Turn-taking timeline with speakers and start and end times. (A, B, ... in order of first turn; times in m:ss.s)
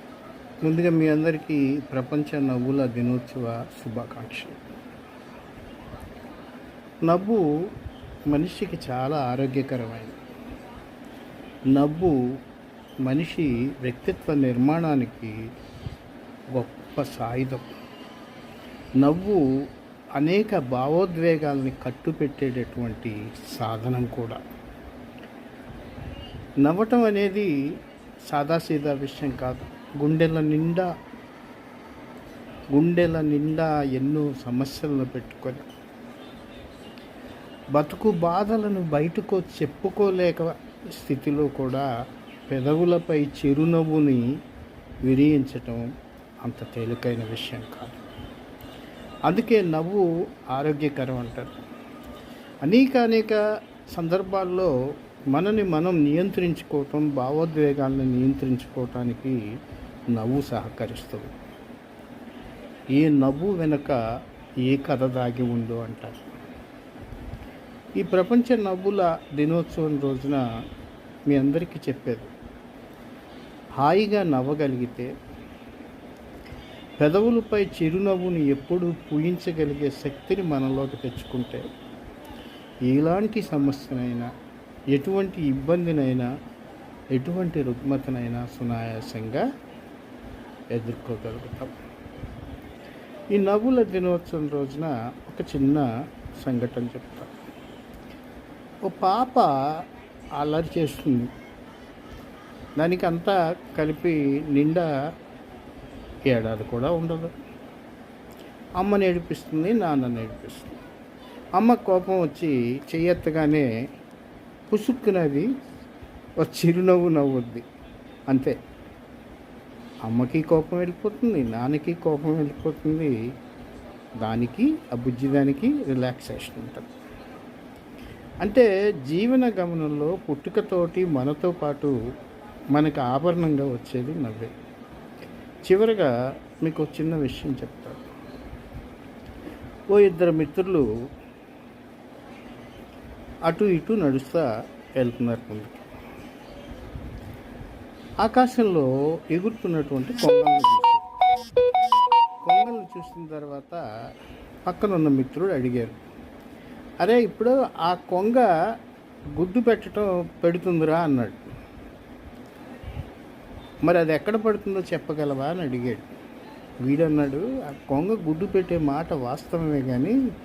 0:00.6-0:04.6 A
0:07.0-0:07.4 A
0:08.3-0:10.2 A
0:11.7-0:12.1 A
0:13.0-0:15.3 A
0:16.5-0:17.7 A
0:19.0-0:19.4 A
0:20.2-0:24.4 A
0:26.6-0:27.5 A
0:28.3-0:30.9 A
0:32.7-0:35.7 A
0:37.7-0:41.9 A
0:42.5-0:44.3 A
0:45.0-0:45.9 A
0:46.4-0:48.0 A
0:49.3-0:51.5 A
0:52.6-0:53.4 A
0:53.9-0:54.7 A
0:55.3-0:59.3 A
1:00.1-1:01.3 A
1:03.0-1:04.0 A
1:04.7-1:06.2 A
1:08.0-1:10.4 A
1:11.3-1:12.3 A
1:13.8-1:15.1 A
1:17.0-1:21.6 A
1:22.9-1:24.3 A
1:24.9-1:26.3 A
1:27.1-1:29.4 A
1:30.7-1:31.7 A
1:33.3-1:35.9 A
1:36.4-1:37.3 A
1:38.8-1:39.5 A
1:40.4-1:41.2 A
1:42.8-1:44.8 A
1:46.3-1:47.3 A
1:48.8-1:50.8 A
1:51.6-1:53.7 A
1:54.7-1:55.5 A
1:56.4-1:57.6 A
1:58.3-1:58.5 A
2:00.0-2:03.1 A
2:04.2-2:06.8 A
2:08.4-2:12.0 A
2:12.7-2:14.5 A
2:15.6-2:18.0 A
2:19.9-2:20.8 A
2:23.5-2:24.4 A
2:25.0-2:25.8 A
2:28.2-2:31.1 A
2:32.4-2:33.8 A
2:34.7-2:36.0 A
2:37.0-2:38.5 A
2:39.4-2:41.5 A
2:43.8-2:46.0 A
2:46.8-2:50.2 A